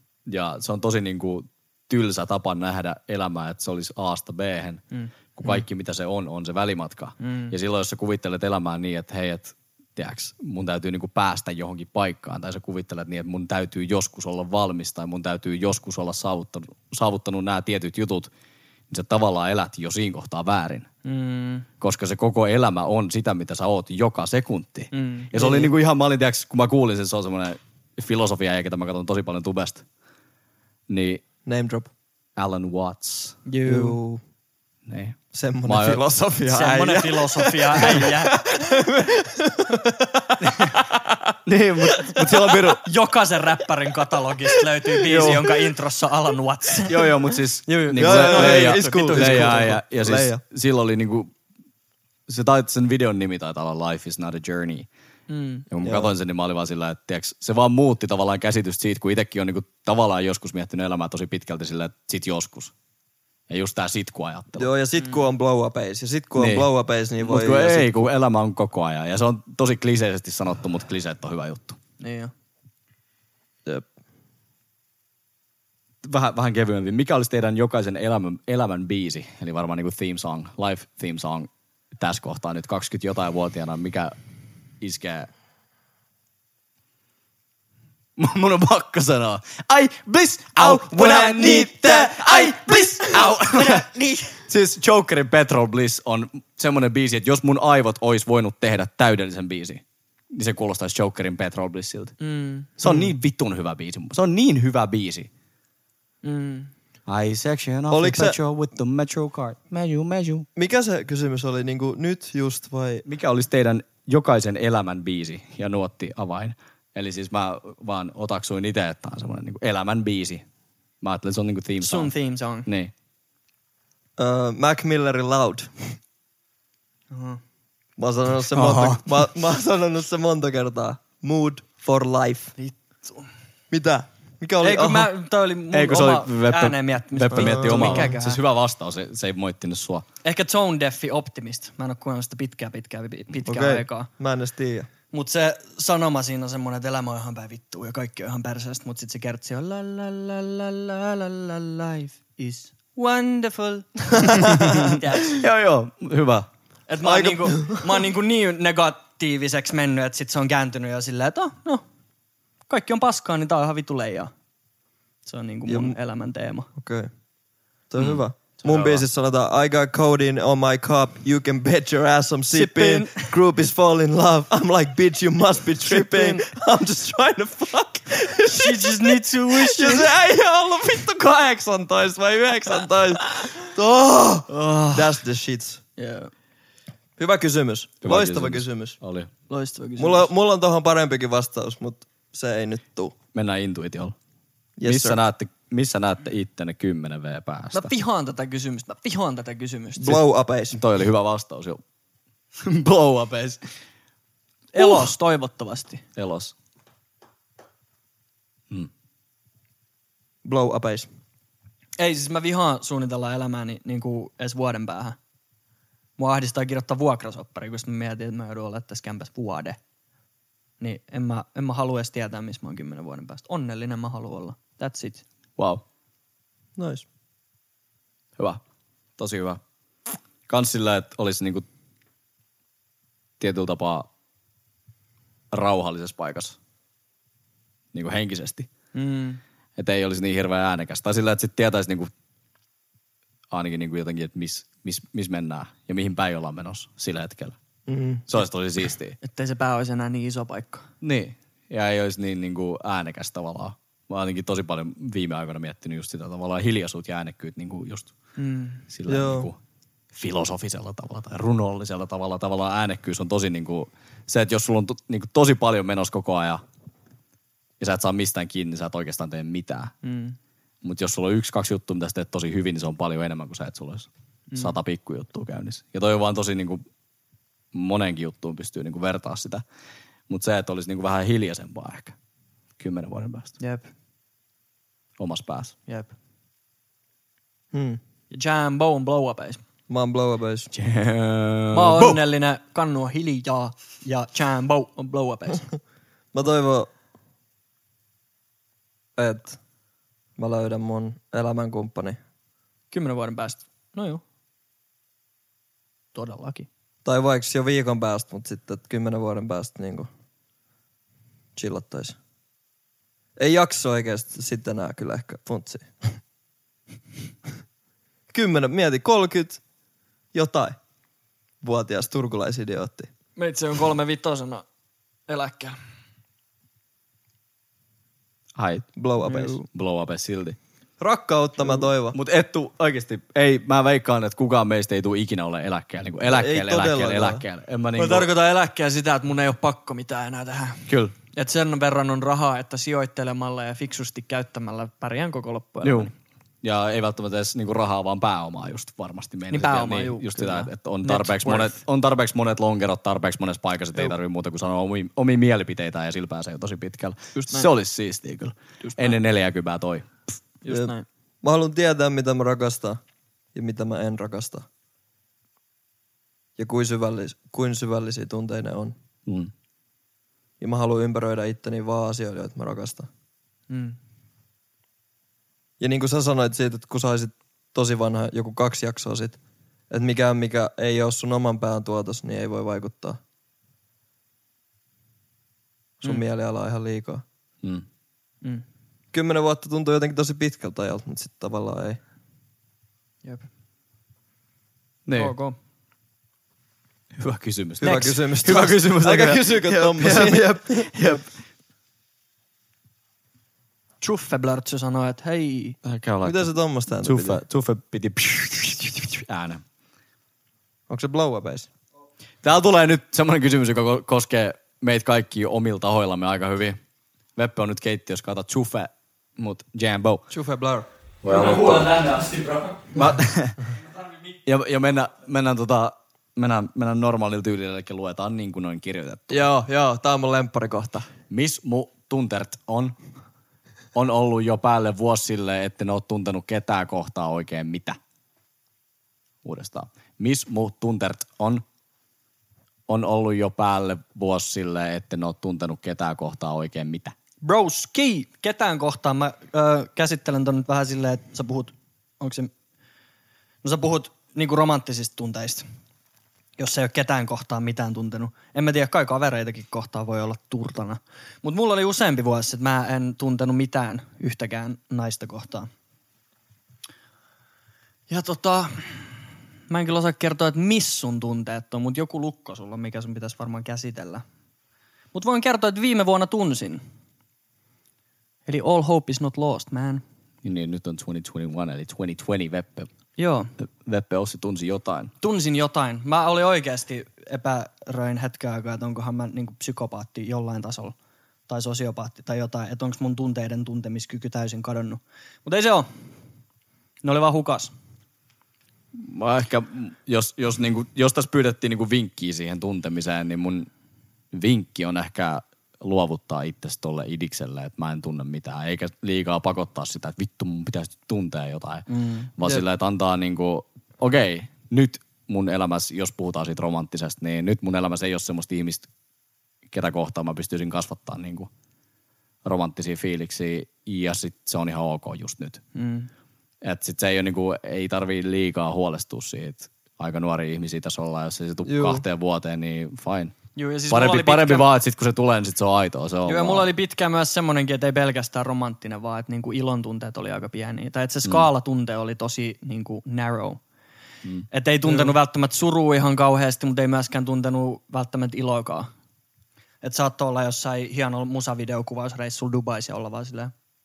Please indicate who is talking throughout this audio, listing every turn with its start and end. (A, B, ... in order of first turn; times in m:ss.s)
0:00.3-0:04.8 A
0:04.9-0:05.6 B
0:05.4-0:18.3 A
0:07.2-0:07.6 B
0:18.9-0:20.9 A
0:21.0-0:21.7 B
0:21.8-0:29.8 A
0:24.9-0:25.7 B
0:30.9-0:31.2 A
0:31.4-0:31.9 C
0:32.4-0:33.4 A
0:33.5-0:34.0 B
0:33.7-0:34.2 C
0:34.9-0:36.0 A
0:35.3-0:41.2 C
0:36.5-0:38.6 B
0:41.5-0:42.9 A
0:42.8-0:47.2 B
0:44.5-0:45.6 C
0:45.0-0:45.5 A
0:46.9-0:51.3 A
0:47.7-0:49.7 B
0:48.0-0:50.4 C
0:52.3-0:54.9 A
0:55.3-0:55.7 B
0:55.7-1:02.7 A
0:55.8-0:56.1 C
1:03.5-1:04.7 A
1:04.6-1:08.0 C
1:06.4-1:06.7 A
1:07.2-1:11.8 A
1:12.0-1:12.3 B
1:16.0-1:24.1 A
1:24.8-1:25.3 A
1:28.2-1:42.1 A
1:30.6-1:31.6 C
1:31.1-1:31.7 B
1:33.2-1:34.3 B
1:42.2-1:42.8 B
1:42.8-1:45.3 A
1:42.8-1:43.1 C
1:46.2-1:46.7 B
1:47.1-1:50.5 A
1:47.9-1:48.4 C
1:50.6-1:53.0 C
1:53.0-2:00.4 A
2:01.0-2:02.1 A
2:01.8-2:02.7 B
2:02.7-2:02.9 A
2:04.2-2:06.0 C
2:07.1-2:07.4 B
2:08.0-2:12.5 C
2:08.6-2:09.1 A
2:12.6-2:13.3 B
2:13.7-2:15.1 C
2:14.6-2:18.4 B
2:15.7-2:20.0 A
2:17.4-2:18.1 C
2:20.2-2:24.1 B
2:23.5-2:24.9 C
2:25.1-2:35.4 B
2:34.2-2:35.0 C
2:35.3-2:36.5 A
2:36.9-2:41.8 B
2:37.0-2:37.9 C
2:42.7-2:44.3 B
2:45.3-2:46.7 B
2:45.7-2:46.0 C
2:46.8-2:47.1 C
2:47.9-3:05.8 C
2:48.0-2:49.0 A
2:52.5-2:53.3 B
2:55.9-2:56.5 B
2:58.6-3:00.1 B
3:04.5-3:05.1 B
3:06.0-3:06.3 B
3:07.2-3:09.0 C
3:08.0-3:09.3 A
3:09.5-3:10.3 B
3:10.0-3:13.2 C
3:13.3-3:14.2 A
3:14.8-3:15.2 C
3:14.8-3:17.9 A
3:17.7-3:20.2 B
3:20.0-3:20.8 C
3:20.7-3:21.8 A
3:22.6-3:23.6 A
3:24.7-3:26.0 B
3:26.2-3:26.5 A
3:30.4-3:31.1 C
3:32.0-3:35.2 B
3:36.2-3:39.8 B
3:40.8-3:45.2 B
3:45.6-3:45.8 A
3:46.8-3:47.1 C
3:49.2-3:49.6 A
3:50.5-3:51.6 A
3:53.4-3:54.1 A
3:55.5-3:56.6 A
3:57.9-3:58.7 A
3:58.9-3:59.4 B
3:59.8-4:02.1 A
4:03.5-4:07.6 A
4:07.9-4:08.3 C
4:08.3-4:09.2 A
4:09.2-4:10.9 B
4:11.0-4:18.1 A
4:18.4-4:18.8 B
4:18.9-4:19.6 A
4:19.1-4:19.5 C
4:20.1-4:26.6 A
4:27.8-4:29.9 A
4:30.0-4:30.4 B
4:30.8-4:36.8 A
4:37.7-4:39.6 A
4:40.3-4:42.2 A
4:42.8-4:43.6 A
4:43.6-4:43.9 B
4:45.2-4:45.8 A
4:47.7-4:48.0 C
4:48.3-4:49.6 B
4:49.9-4:50.7 C
4:50.7-4:52.2 A
4:51.7-4:55.7 B
4:56.3-4:56.9 C
4:59.2-4:59.6 C
5:00.4-5:02.2 C
5:02.9-5:04.2 B
5:06.2-5:06.7 B
5:07.0-5:10.1 C
5:11.6-5:12.2 C
5:13.4-5:16.2 C
5:18.3-5:19.6 C
5:20.3-5:20.8 C
5:21.6-5:23.1 C
5:23.4-5:24.6 B
5:25.3-5:25.8 B
5:28.6-5:28.9 A
5:29.0-5:29.6 C
5:29.2-5:29.6 B
5:29.7-5:30.6 A
5:31.0-5:32.2 C
5:31.7-5:38.3 A
5:36.2-5:37.4 C
5:38.0-5:46.1 B
5:40.9-5:41.2 A
5:45.8-5:46.1 A
5:46.6-6:00.3 A
5:49.5-5:51.8 B
6:00.6-6:01.0 B
6:00.7-6:03.0 C
6:03.6-6:04.7 C
6:06.6-6:09.0 C
6:09.3-6:09.5 A
6:10.6-6:13.1 C
6:13.7-6:14.0 B
6:15.8-6:19.4 C
6:19.9-6:23.2 C
6:26.0-6:27.2 C
6:29.1-6:32.0 C
6:35.1-6:35.3 A
6:35.1-6:35.6 B
6:37.2-6:41.3 A
6:37.8-6:40.9 C
6:37.8-6:38.2 B
6:44.0-6:45.8 B
6:45.8-6:49.6 A
6:46.2-6:47.4 C
6:50.9-6:51.7 C
6:52.4-6:56.8 A
6:57.4-7:00.2 A
7:00.3-7:00.9 C
7:01.2-7:01.9 A
7:01.3-7:03.0 B
7:02.9-7:03.6 A
7:04.4-7:09.4 A
7:09.3-7:11.1 C
7:11.3-7:13.0 A
7:14.0-7:18.0 A
7:19.4-7:21.6 A
7:22.9-7:27.1 A
7:27.4-7:32.5 B
7:33.6-7:35.6 B
7:36.6-7:45.7 B
7:48.1-7:54.2 B
7:55.1-7:56.8 B
7:58.5-8:00.0 B
8:00.4-8:02.9 A
8:03.2-8:03.5 B
8:03.6-8:05.1 A
8:05.2-8:11.0 B
8:11.5-8:15.9 B
8:17.0-8:17.7 B
8:18.9-8:23.7 A
8:24.3-8:38.9 A
8:31.9-8:32.3 B
8:39.7-8:41.5 A
8:42.4-8:45.6 A
8:45.8-8:46.1 B
8:46.6-8:53.4 A
8:51.6-8:52.0 C
8:53.6-8:54.7 B
8:53.9-8:56.7 A
8:56.3-9:03.6 B
9:04.5-9:08.9 B
9:04.8-9:05.2 C
9:09.8-9:13.5 B